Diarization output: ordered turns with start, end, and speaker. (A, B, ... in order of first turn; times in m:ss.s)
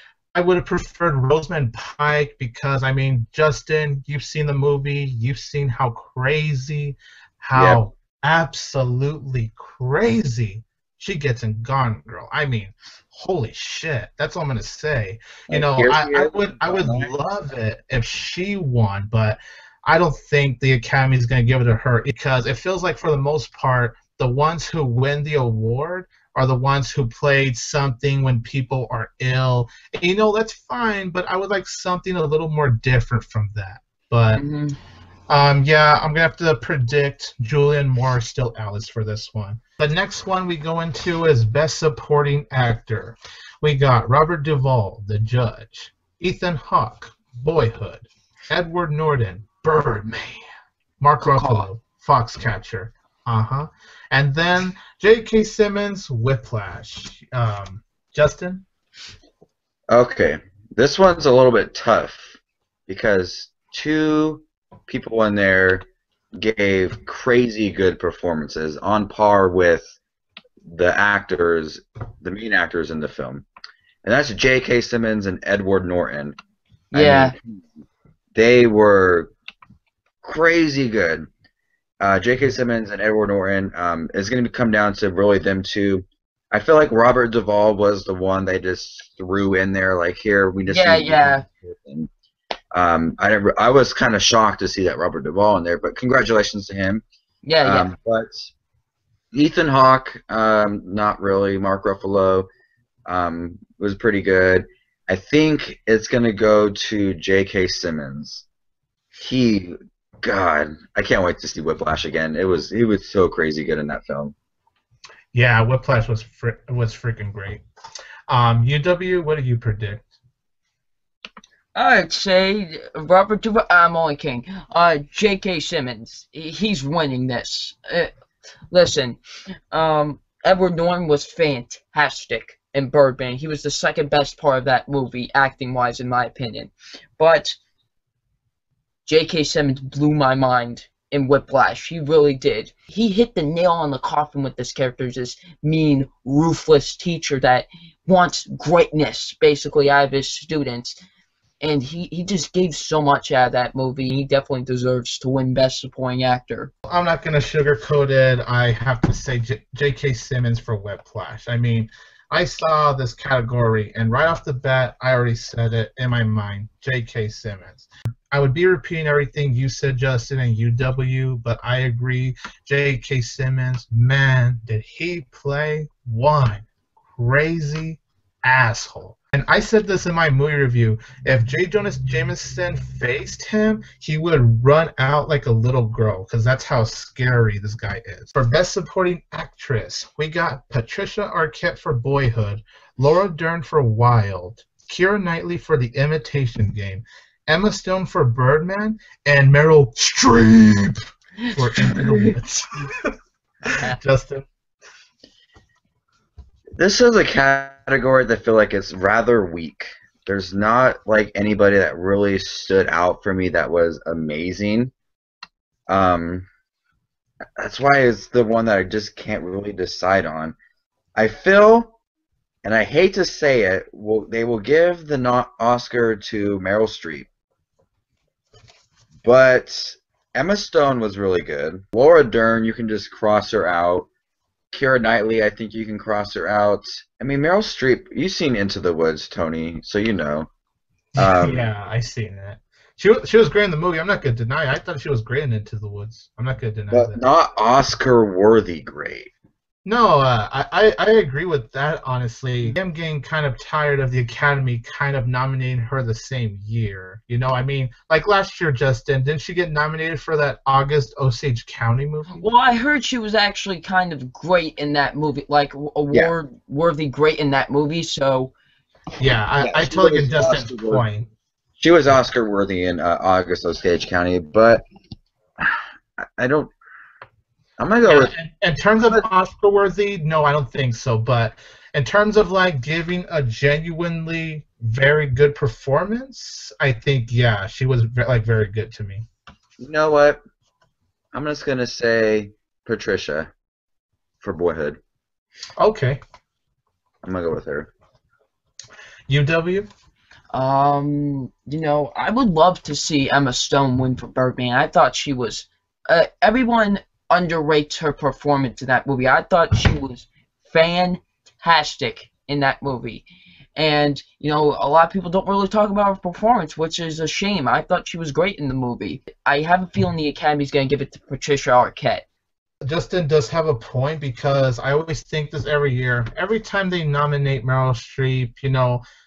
0:00.3-0:34.4 A
0:07.6-0:07.8 B
0:15.5-0:17.1 B
0:34.3-0:34.8 C
0:35.3-0:50.4 A
0:51.0-0:58.6 A
0:51.2-0:51.7 C
0:59.9-1:09.9 B
1:10.6-1:13.5 B
1:14.0-1:16.4 B
1:16.9-1:17.4 C
1:16.9-1:17.6 B
1:18.4-1:19.3 B
1:20.2-1:21.3 B
1:22.0-1:32.1 B
1:30.7-1:31.4 C
1:32.7-1:37.0 B
1:37.4-1:37.9 C
1:37.6-1:38.5 B
1:39.3-1:42.5 B
1:43.1-1:48.4 B
1:49.2-1:54.3 B
1:55.3-1:57.6 A
1:58.3-2:00.1 A
2:01.8-2:08.1 C
2:08.7-2:09.2 C
2:09.7-2:17.6 C
2:19.1-2:31.0 C
2:31.6-2:36.7 C
2:36.9-2:56.6 A
2:57.2-3:21.0 A
3:21.4-3:22.4 C
3:21.5-3:23.1 A
3:23.7-3:24.5 A
3:26.8-3:34.9 B
3:35.9-3:36.5 B
3:37.6-3:40.6 B
3:41.2-3:41.9 B
3:42.6-3:47.3 B
3:49.2-3:54.1 B
3:54.7-4:00.5 B
4:01.2-4:07.2 A
4:01.2-4:01.7 B
4:06.9-4:09.3 B
4:09.8-4:22.4 A
4:22.3-4:28.5 C
4:29.2-4:31.3 A
4:29.6-4:31.0 B
4:31.8-4:34.8 B
4:35.6-4:36.7 B
4:37.8-4:38.3 B
4:38.0-4:49.3 A
4:49.8-4:50.4 B
4:51.3-4:53.5 B
4:54.4-4:55.0 B
4:55.8-4:56.2 A
4:57.2-4:57.9 B
4:59.3-4:59.9 A
5:00.5-5:13.2 C
5:13.8-5:22.2 C
5:22.8-5:29.0 A